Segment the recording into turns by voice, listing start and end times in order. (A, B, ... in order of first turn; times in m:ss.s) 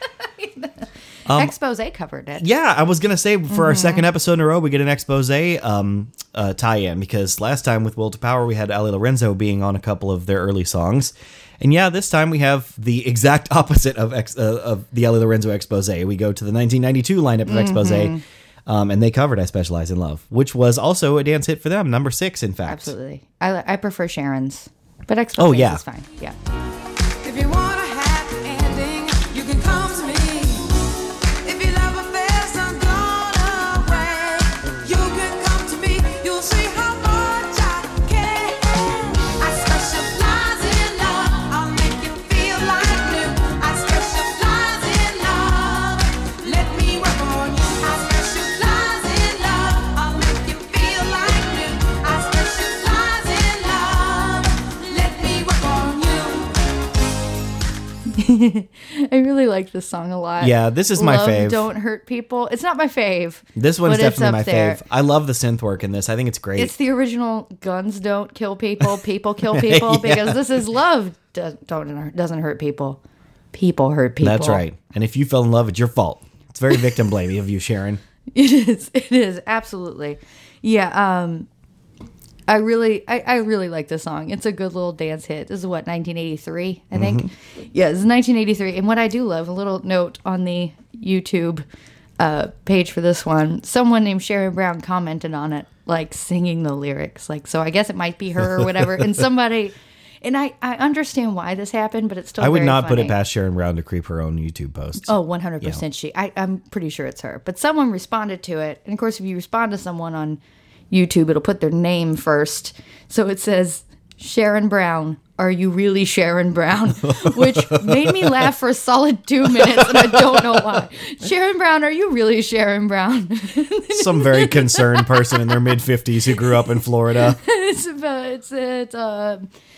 0:00.4-0:02.4 A
0:01.3-0:01.5 B
0:02.4-0:22.9 B
0:03.5-0:04.0 A
0:17.4-0:18.2 A
0:22.6-0:26.4 A
0:25.4-0:25.8 B
0:27.2-0:30.8 C
0:31.4-0:56.6 C
0:58.1-1:04.8 A
1:00.4-1:01.7 B
1:03.6-1:06.7 B
1:06.6-1:13.0 A
1:09.5-1:10.5 B
1:13.5-1:14.6 A
1:14.2-1:18.0 B
1:18.3-1:21.5 A
1:22.5-1:31.6 A
1:26.9-1:27.3 B
1:32.2-1:43.2 A
1:42.4-1:45.8 B
1:45.0-1:50.4 A
1:50.9-2:05.6 A
1:57.0-1:58.5 B
1:59.4-2:00.8 B
2:03.9-2:07.4 B
2:07.3-2:09.5 A